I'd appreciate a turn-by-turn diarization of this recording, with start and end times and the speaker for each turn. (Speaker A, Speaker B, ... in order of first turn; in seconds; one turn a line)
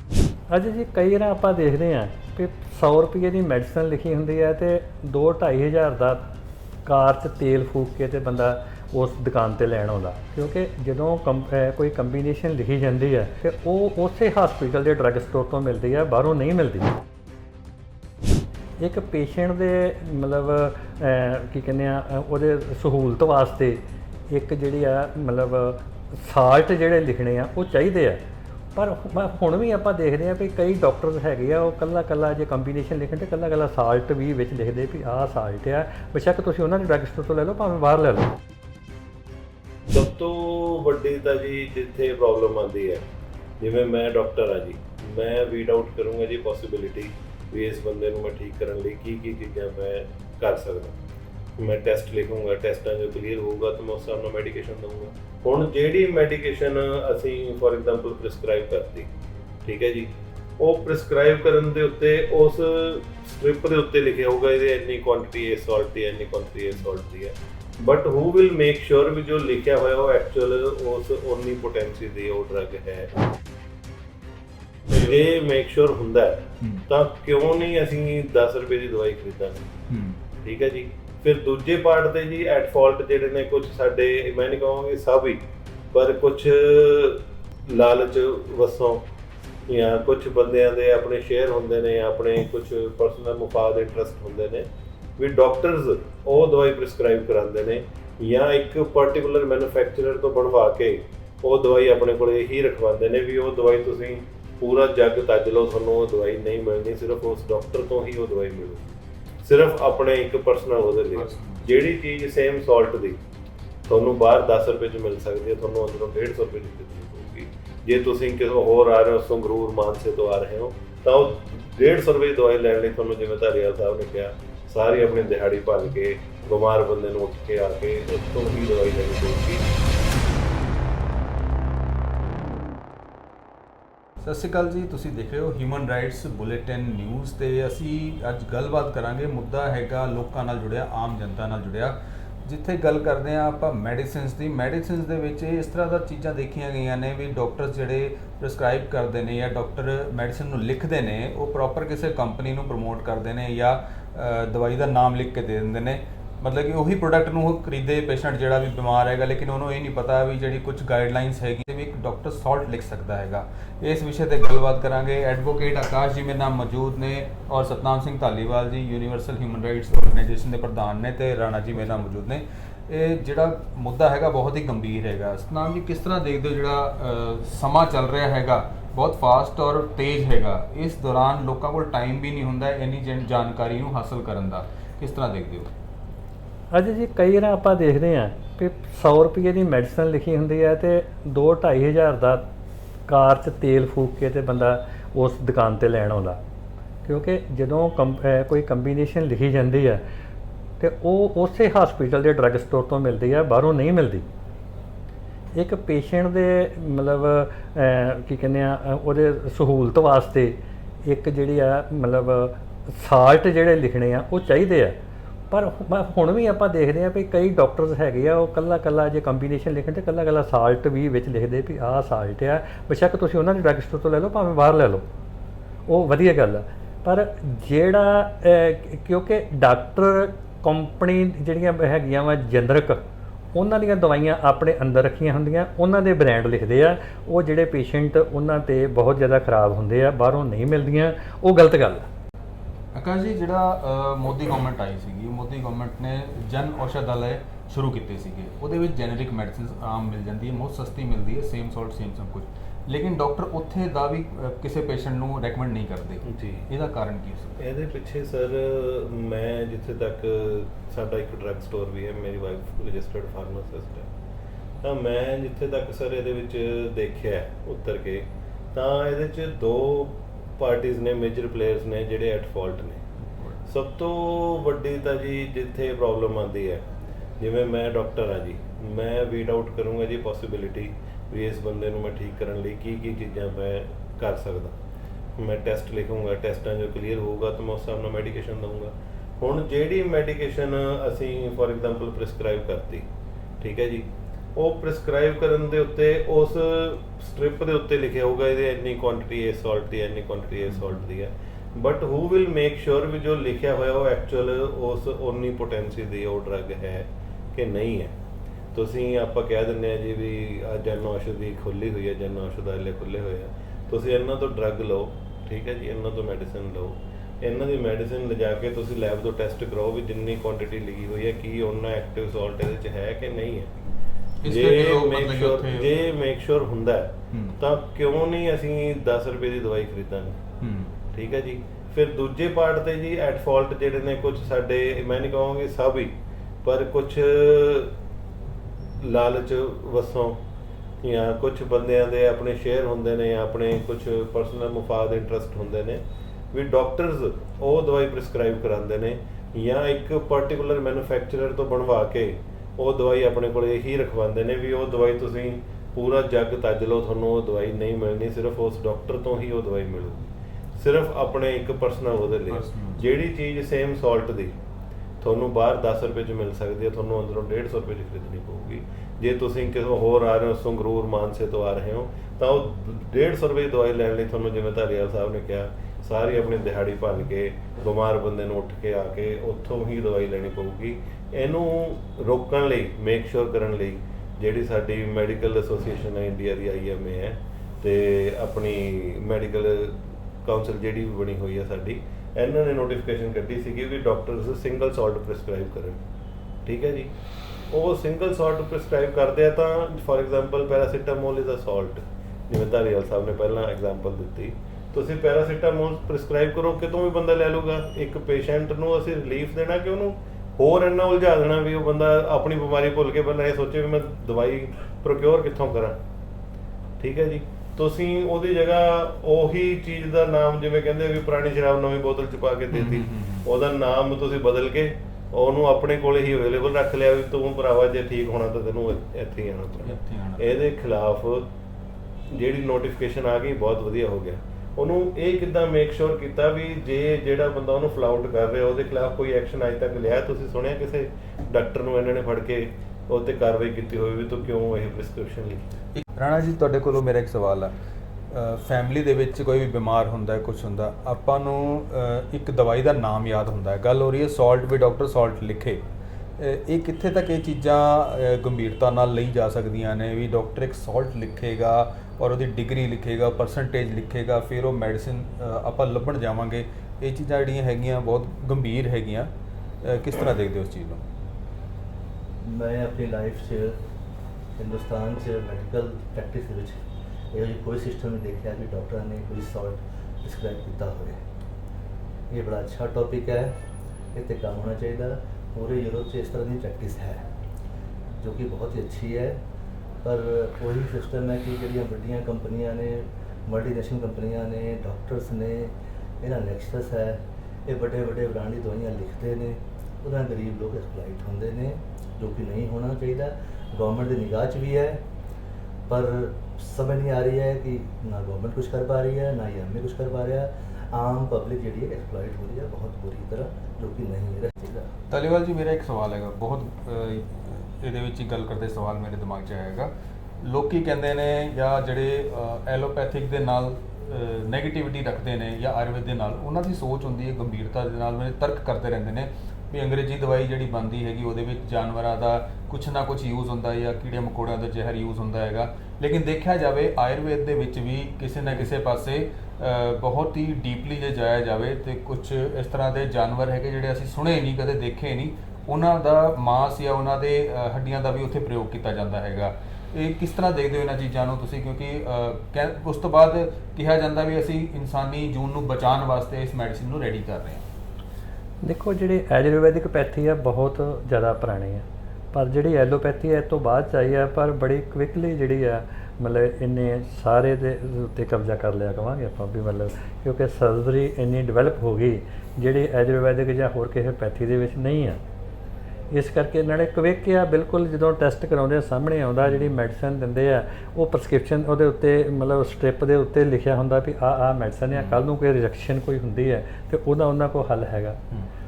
Speaker A: 0.5-6.3
Speaker A: 6.8-16.9
Speaker A: 18.8-28.2
Speaker A: 28.7-38.3
Speaker B: 39.9-43.0
Speaker B: 43.6-50.9
Speaker B: 51.6-59.1
Speaker B: 59.6-73.1
Speaker C: 74.9-75.2
Speaker B: 74.9-79.7
Speaker C: 79.9-80.2
Speaker B: 80.4-85.4
Speaker B: 85.9-89.0
Speaker B: 89.7-94.7
Speaker B: 95.2-108.8
Speaker B: 109.4-113.2
Speaker C: 111.1-111.7
Speaker B: 113.9-129.6
Speaker C: 134.2-185.7
Speaker A: 186.7-192.4
Speaker A: 193.1-196.4
Speaker A: 197.0-200.0
Speaker A: 200.8-204.3
Speaker A: 205.5-214.9
Speaker A: 215.5-225.1
Speaker A: 225.9-242.1
Speaker C: 242.9-257.6
Speaker B: 256.2-256.7
Speaker B: 257.6-264.1
Speaker B: 264.8-273.0
Speaker C: 273.3-273.6
Speaker B: 273.6-276.8
Speaker B: 277.4-284.8
Speaker B: 285.4-293.1
Speaker B: 293.6-308.1
Speaker B: 308.7-323.7
Speaker C: 324.4-325.9
Speaker B: 324.4-330.4
Speaker C: 327.3-327.6
Speaker C: 330.6-330.9
Speaker B: 331.1-336.1
Speaker B: 336.6-337.9
Speaker B: 339.0-340.4
Speaker B: 341.0-364.5
Speaker C: 362.5-363.0
Speaker B: 365.2-396.0
Speaker B: 396.6-397.1
Speaker B: 397.7-416.0
Speaker B: 417.0-431.5
Speaker C: 422.7-423.5
Speaker C: 429.8-430.6
Speaker B: 432.3-445.6
Speaker C: 445.9-447.7
Speaker C: 448.3-455.8
Speaker C: 456.4-469.3
Speaker C: 469.8-471.0
Speaker D: 472.4-473.8
Speaker D: 474.6-476.8
Speaker D: 477.3-481.2
Speaker D: 482.3-483.5
Speaker D: 484.1-487.2
Speaker D: 488.2-489.4
Speaker D: 490.0-505.0
Speaker D: 505.9-514.9
Speaker C: 515.1-557.6
Speaker A: 558.6-575.2
Speaker A: 576.1-588.2
Speaker C: 579.4-579.7
Speaker C: 584.9-585.2